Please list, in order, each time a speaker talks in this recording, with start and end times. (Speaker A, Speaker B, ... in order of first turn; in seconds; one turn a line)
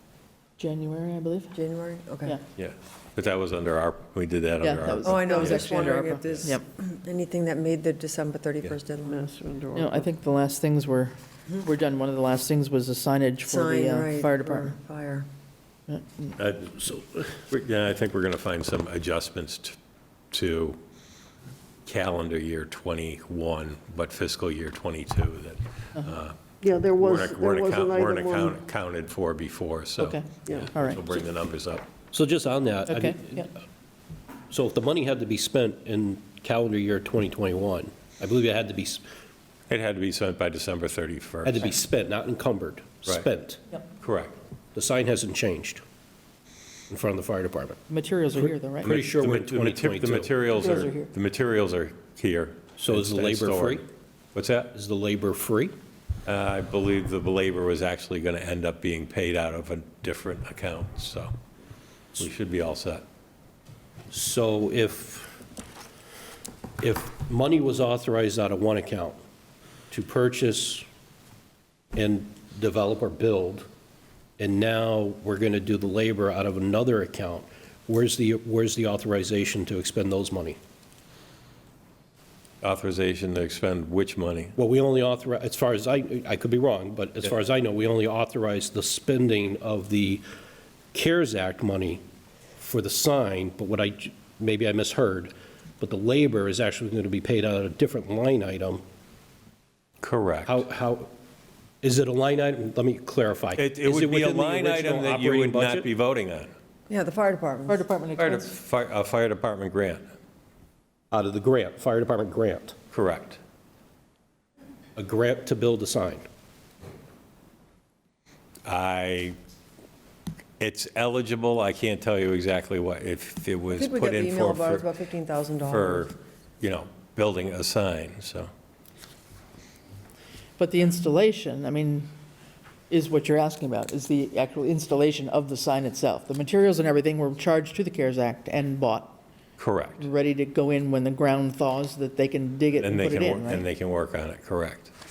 Speaker A: 0.6-1.6
Speaker B: 1.5-2.4
Speaker C: 2.5-6.3
Speaker A: 4.6-6.6
Speaker B: 5.0-9.2
Speaker D: 9.1-10.1
Speaker A: 9.7-14.7
Speaker B: 13.4-15.2
Speaker A: 15.9-16.3
Speaker C: 16.4-19.8
Speaker C: 20.3-20.8
Speaker C: 21.9-26.4
Speaker D: 26.6-28.6
Speaker C: 27.0-31.9
Speaker A: 30.0-31.0
Speaker E: 32.1-33.6
Speaker A: 32.9-33.4
Speaker E: 34.5-39.0
Speaker C: 39.7-41.7
Speaker E: 41.4-43.6
Speaker C: 44.0-44.4
Speaker E: 44.7-45.8
Speaker E: 46.9-47.8
Speaker A: 47.9-49.0
Speaker E: 48.4-50.3
Speaker C: 48.8-53.8
Speaker A: 50.5-51.1
Speaker E: 52.8-53.8
Speaker C: 54.3-54.7
Speaker E: 54.7-55.7
Speaker C: 56.2-61.3
Speaker C: 62.2-63.0
Speaker E: 64.1-65.4
Speaker E: 66.8-69.2
Speaker E: 69.9-70.8
Speaker E: 71.9-73.7
Speaker E: 74.4-80.6
Speaker C: 82.6-84.5
Speaker E: 84.5-90.2
Speaker E: 90.9-92.0
Speaker E: 92.6-98.8
Speaker C: 100.0-100.6
Speaker E: 100.5-101.1
Speaker E: 101.8-105.9
Speaker C: 103.6-106.5
Speaker B: 106.9-107.8
Speaker A: 107.7-108.5
Speaker C: 108.2-110.0
Speaker E: 111.1-112.8
Speaker C: 112.9-113.4
Speaker E: 115.0-116.2
Speaker C: 118.7-119.3
Speaker C: 120.6-124.8
Speaker B: 123.7-126.1
Speaker C: 125.7-128.5
Speaker A: 130.6-132.1
Speaker A: 132.9-139.2
Speaker C: 139.6-140.1
Speaker A: 140.0-143.6
Speaker C: 142.8-144.9